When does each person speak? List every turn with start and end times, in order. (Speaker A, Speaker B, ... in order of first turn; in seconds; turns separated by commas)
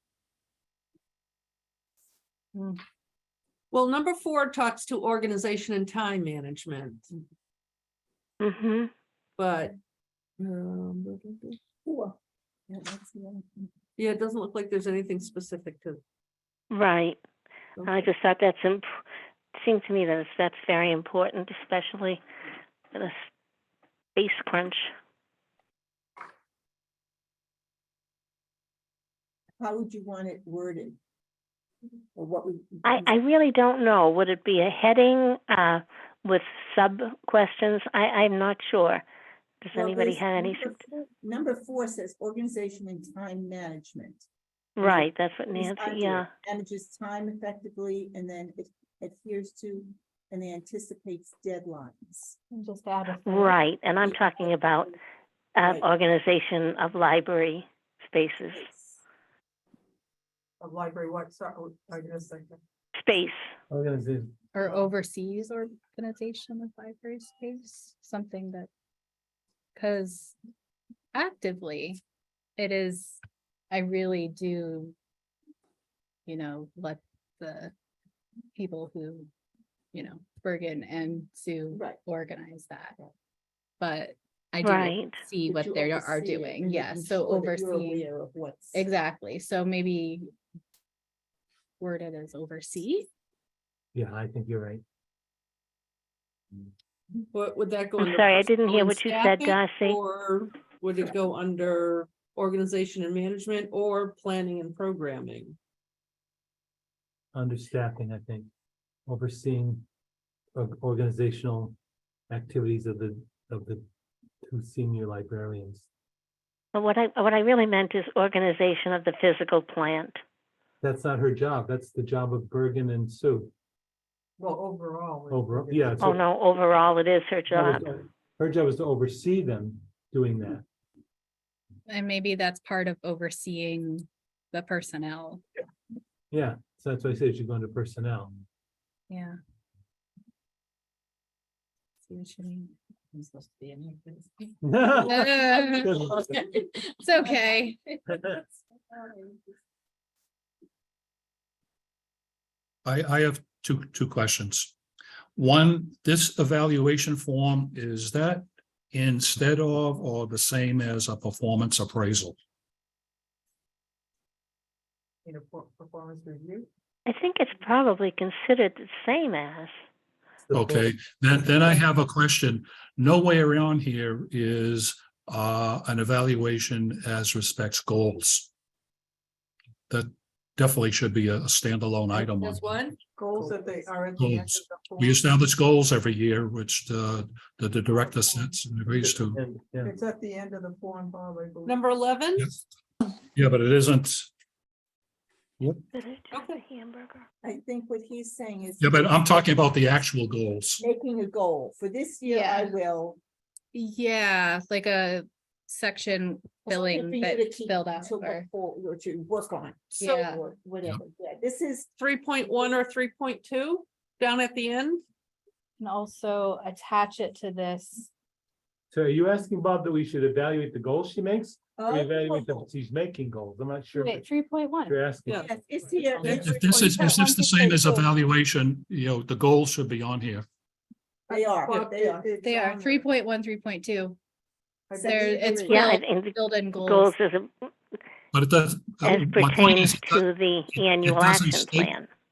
Speaker A: 2.5-2.8, Speaker B: 3.7-7.1, Speaker C: 8.4-8.9, Speaker B: 9.4-9.8, Speaker B: 10.4-11.6, Speaker D: 11.8-12.2, Speaker D: 12.7-13.7, Speaker B: 14.0-16.0, Speaker C: 16.7-17.2, Speaker B: 17.8-18.1, Speaker C: 17.9-18.9, Speaker C: 19.5-22.2, Speaker C: 24.1-24.9, Speaker D: 29.6-31.0, Speaker D: 32.1-33.1, Speaker C: 32.8-39.0, Speaker C: 39.6-40.8, Speaker D: 39.7-44.2, Speaker C: 44.8-46.3, Speaker D: 44.8-52.4, Speaker A: 52.5-53.6, Speaker C: 53.2-55.0, Speaker C: 55.5-58.7, Speaker D: 58.5-59.0, Speaker E: 60.6-62.6, Speaker C: 63.0-63.4, Speaker F: 63.7-64.3, Speaker A: 64.5-68.7, Speaker A: 69.8-70.3, Speaker A: 71.1-72.0, Speaker A: 72.6-73.2, Speaker A: 73.7-74.9, Speaker A: 76.3-77.7, Speaker A: 78.5-79.3, Speaker A: 79.9-83.0, Speaker D: 81.7-82.0, Speaker A: 83.8-88.0, Speaker C: 84.6-85.2, Speaker D: 85.4-88.8, Speaker A: 88.7-90.3, Speaker A: 91.8-93.1, Speaker F: 93.9-94.8, Speaker B: 97.3-105.5, Speaker C: 98.0-100.0, Speaker F: 107.3-108.5, Speaker F: 109.0-109.8, Speaker F: 110.5-111.8, Speaker F: 112.3-113.8, Speaker F: 114.4-115.9, Speaker C: 116.7-120.2, Speaker F: 120.8-123.5, Speaker E: 124.4-126.2, Speaker F: 125.3-126.2, Speaker C: 126.0-127.8, Speaker F: 127.5-130.6, Speaker A: 131.9-135.4, Speaker F: 136.3-138.3, Speaker A: 139.1-139.3, Speaker A: 142.1-143.9, Speaker E: 143.4-144.2, Speaker F: 144.6-146.3, Speaker E: 145.0-145.2, Speaker A: 145.0-148.2, Speaker G: 152.8-154.7, Speaker G: 155.3-162.3, Speaker E: 165.2-166.7, Speaker C: 167.1-169.7, Speaker F: 170.5-170.9, Speaker G: 170.5-178.5, Speaker G: 179.9-182.8, Speaker B: 182.1-183.0, Speaker E: 183.2-185.3, Speaker G: 184.2-189.4, Speaker F: 189.0-189.9, Speaker E: 189.8-191.8, Speaker B: 191.6-192.5, Speaker G: 193.3-194.3, Speaker C: 195.9-197.2, Speaker B: 196.3-196.6, Speaker D: 197.4-199.1, Speaker G: 198.8-200.8, Speaker D: 200.8-203.2, Speaker A: 202.2-202.7, Speaker A: 203.7-208.5, Speaker D: 206.6-211.9, Speaker A: 210.0-210.4, Speaker B: 210.0-210.2, Speaker B: 212.0-215.0, Speaker A: 215.8-218.1, Speaker F: 218.9-224.3, Speaker D: 221.8-222.6, Speaker A: 223.9-225.0, Speaker F: 224.8-225.4, Speaker D: 225.4-227.2, Speaker E: 226.1-226.5, Speaker B: 226.2-226.8, Speaker G: 226.3-230.4, Speaker A: 227.2-228.1, Speaker D: 231.3-232.4, Speaker E: 231.3-233.1, Speaker A: 232.4-234.2, Speaker E: 234.9-235.6, Speaker D: 234.9-236.0, Speaker A: 235.0-237.1, Speaker C: 235.7-237.7, Speaker G: 238.3-241.9, Speaker C: 239.0-242.1